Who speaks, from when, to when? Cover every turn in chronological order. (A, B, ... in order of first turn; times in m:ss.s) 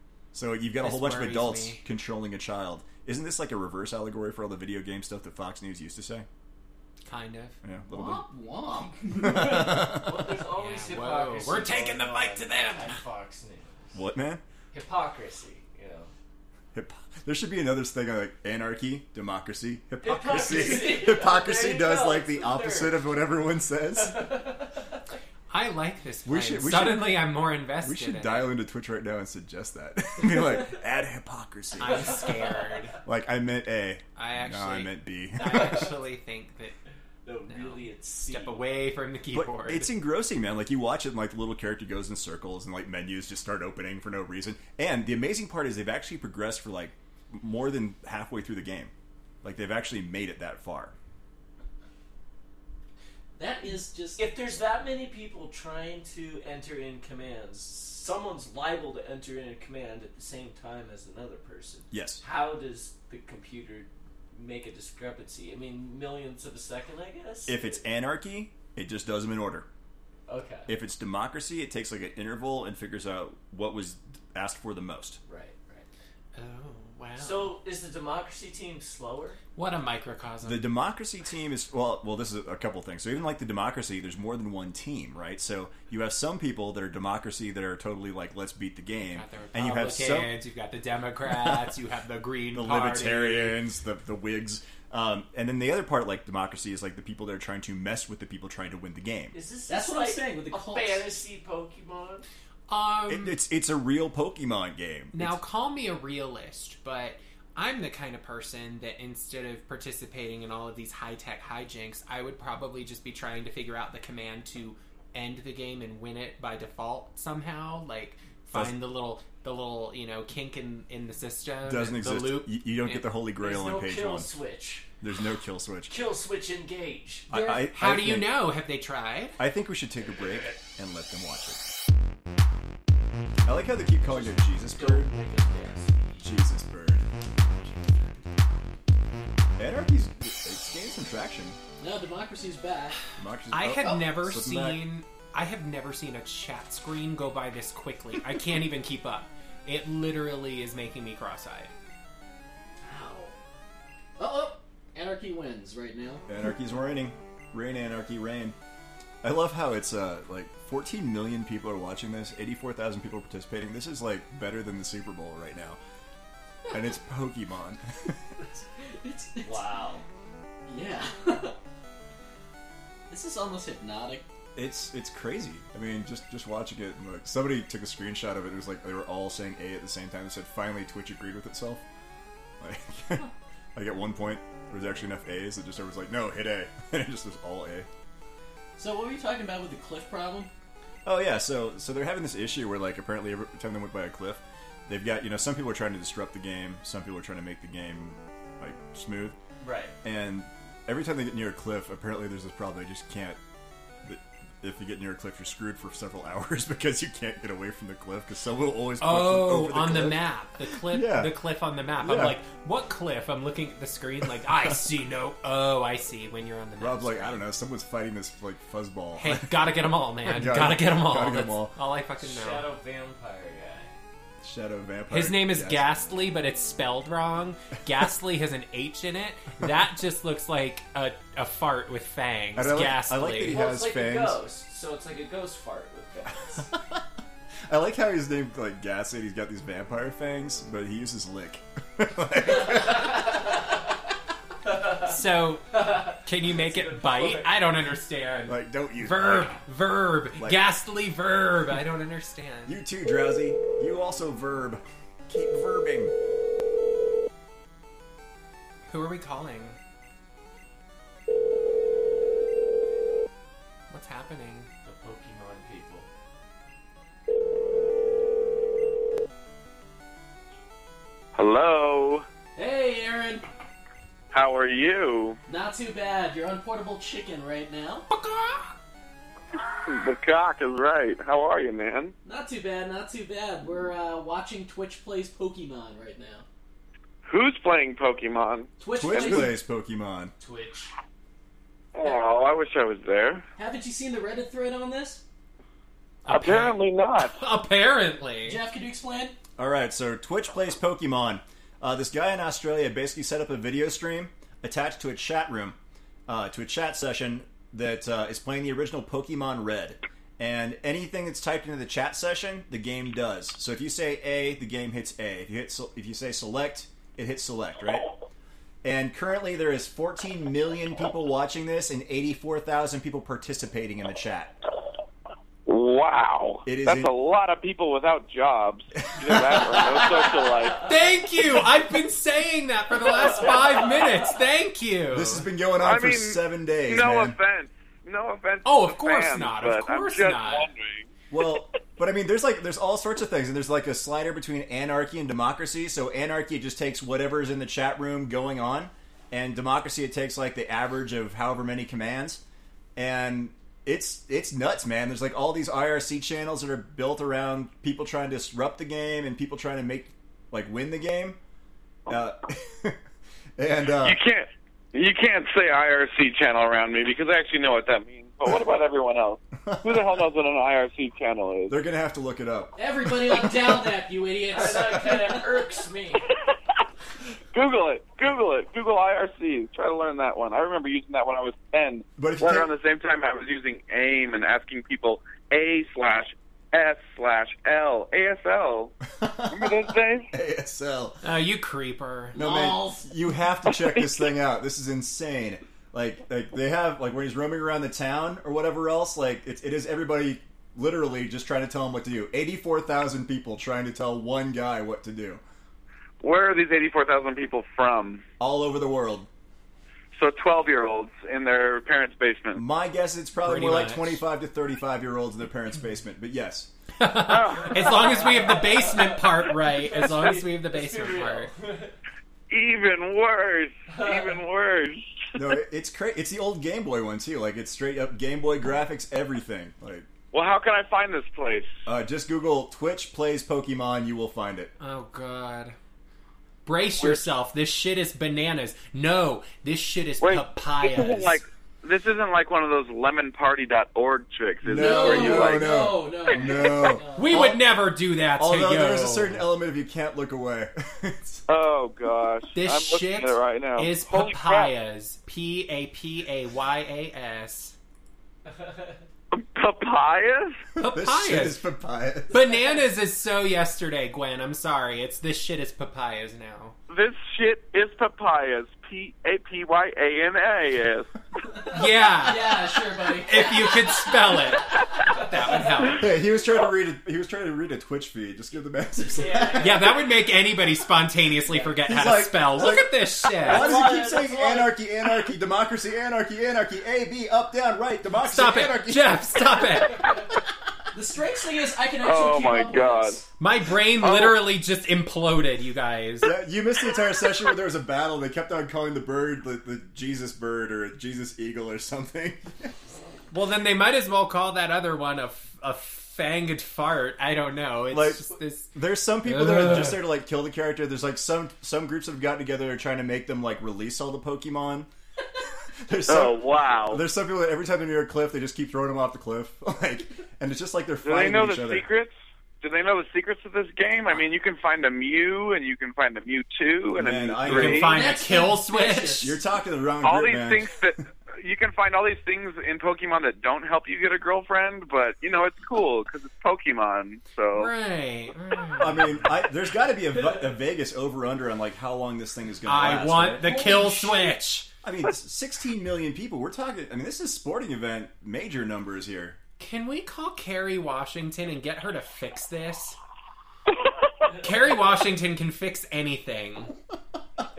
0:00.3-0:06.3 A
0:00.8-0:01.8 B
0:07.0-0:07.6 B
0:07.6-0:08.2 A
0:07.9-0:09.9 C
0:09.1-0:10.4 A
0:09.5-0:14.0 D
0:10.6-0:13.0 B
0:13.9-0:14.4 A
0:14.7-0:16.1 D
0:16.7-0:24.3 A
0:20.0-0:23.1 D
0:23.9-0:24.8 D
0:25.5-0:28.5 B
0:26.2-0:32.2 A
0:31.8-0:33.0 B
0:33.0-0:35.9 A
0:34.2-0:36.7 B
0:37.2-0:38.6 D
0:37.5-0:39.9 B
0:39.3-0:50.9 A
0:53.4-0:54.2 C
0:54.2-1:07.8 D
1:01.9-1:02.2 A
1:07.4-1:09.7 A
1:10.3-1:10.7 D
1:10.7-1:15.2 A
1:15.2-1:15.9 D
1:16.4-1:17.6 B
1:17.2-1:19.4 D
1:19.6-1:20.7 B
1:20.4-1:30.3 A
1:29.1-1:33.6 B
1:31.2-1:31.7 A
1:32.5-1:39.4 A
1:39.3-1:42.2 D
1:39.7-1:41.1 C
1:42.7-1:43.4 B
1:43.1-1:45.4 A
1:45.1-2:03.0 B
2:01.6-2:04.3 A
2:03.4-2:04.9 D
2:05.0-2:06.0 A
2:05.9-2:07.3 D
2:07.3-2:08.4 A
2:07.3-2:09.4 B
2:09.4-2:11.6 A
2:13.4-2:15.1 A
2:14.0-2:16.4 D
2:16.2-2:17.1 A
2:17.7-2:18.2 D
2:19.6-2:21.6 A
2:21.8-2:23.0 C
2:23.2-2:24.8 A
2:23.5-2:31.7 B
2:32.8-2:33.3 C
2:34.2-2:36.2 C
2:36.3-2:38.6 A
2:39.2-2:45.8 A
2:46.7-2:48.2 A
2:48.8-2:49.6 C
2:49.4-2:50.0 D
2:50.7-2:51.6 C
2:53.1-2:54.2 C
2:54.6-3:01.8 A
3:02.6-3:07.9 A
3:08.8-3:10.5 C
3:11.0-3:19.4 A
3:19.6-3:19.9 D
3:20.0-3:23.4 A
3:24.0-3:31.4 A
3:29.0-3:37.4 B
3:32.0-3:32.4 A
3:36.8-3:41.7 A
3:39.2-3:42.7 B
3:42.2-3:43.9 D
3:44.4-3:45.9 A
3:45.1-3:53.6 B
3:52.5-3:54.4 A
3:53.4-3:56.7 D
3:56.7-3:57.0 A
3:57.7-4:03.4 A
4:02.7-4:03.2 D
4:04.6-4:05.2 D
4:05.0-4:12.8 B
4:05.7-4:07.6 D
4:08.5-4:09.6 A
4:10.4-4:10.6 A
4:12.6-4:16.1 A
4:18.9-4:19.8 B
4:23.9-4:24.7 B
4:24.8-4:26.1 D
4:31.4-4:32.2 E
4:32.6-4:33.4 C
4:34.3-4:35.4 E
4:35.5-4:38.0 C
4:38.1-4:38.7 B
4:39.7-4:42.1 E
4:42.2-4:46.4 C
4:47.2-4:49.5 E
4:48.8-4:49.5 C
4:49.0-4:50.3 A
4:50.4-4:50.9 D
4:51.9-4:53.4 E
4:53.6-4:55.2 C
4:56.2-4:58.6 B
4:56.3-4:57.4 E
4:58.4-4:59.4 C
4:59.6-5:18.1 A
5:18.8-5:24.5 A
5:25.6-5:30.9 E
5:26.6-5:27.1 A
5:29.2-5:29.7 A
5:30.8-5:35.4 B
5:35.1-5:37.4 A
5:35.8-5:41.5 E
5:38.6-5:40.7 B
5:41.3-5:52.4 A
5:53.0-6:01.4 A
6:02.1-6:03.0 A
6:03.6-6:04.2 A
6:04.0-6:11.7 E
6:09.6-6:10.0 A
6:11.7-6:13.9 A
6:12.8-6:15.6 C
6:14.5-6:16.2 D
6:17.5-6:28.9 E
6:22.2-6:22.7 A
6:29.2-6:31.2 A
6:29.5-6:30.3 E
6:31.2-6:32.4 B
6:32.3-6:33.1 C
6:32.3-6:45.4 A
6:46.2-6:48.2 E
6:48.4-6:49.3 A
6:50.1-6:52.6 E
6:52.5-6:56.7 A
6:53.4-6:54.2 B
6:57.0-7:01.5 B
6:57.2-6:58.5 E
6:57.8-7:01.9 D
7:02.5-7:05.1 E
7:03.9-7:04.4 D
7:05.3-7:10.1 A
7:10.3-7:11.7 E
7:11.8-7:14.7 A
7:14.8-7:15.8 B
7:16.6-7:21.4 B
7:17.0-7:17.2 E
7:20.2-7:25.9 E
7:24.6-7:27.6 A
7:24.7-7:27.5 C
7:27.1-7:29.4 B
7:28.4-7:31.4 A
7:31.5-7:34.7 E
7:32.5-7:37.7 B
7:38.4-7:39.0 D
7:39.3-7:40.6 E
7:40.8-7:41.6 B
7:40.8-7:42.4 A
7:42.3-7:46.8 B
7:46.9-7:51.1 E
7:51.7-7:56.0 B
7:51.7-7:54.1 C
7:55.9-8:00.0 A
7:59.1-7:59.8 D
7:59.6-8:03.7 B
8:01.8-8:09.4 A
8:03.5-8:04.6 C
8:03.6-8:04.6 D
8:08.2-8:10.2 B
8:10.9-8:13.2 C
8:12.0-8:13.2 E
8:13.4-8:16.3 B
8:14.0-8:14.4 E
8:16.2-8:22.7 A
8:23.3-8:28.7 B
8:27.9-8:34.9 A
8:29.2-8:30.0 B
8:35.8-8:41.8 A
8:36.1-8:37.0 E
8:41.0-8:47.9 E
8:47.0-8:48.1 A
8:47.4-8:49.4 B
8:47.8-8:49.3 C
8:49.2-8:50.8 A
8:50.0-8:57.7 E
8:57.5-8:59.2 B
8:58.8-9:03.5 A
9:02.6-9:04.7 B
9:03.4-9:04.3 C
9:04.8-9:09.4 A
9:09.6-9:13.0 B
9:14.4-9:16.7 B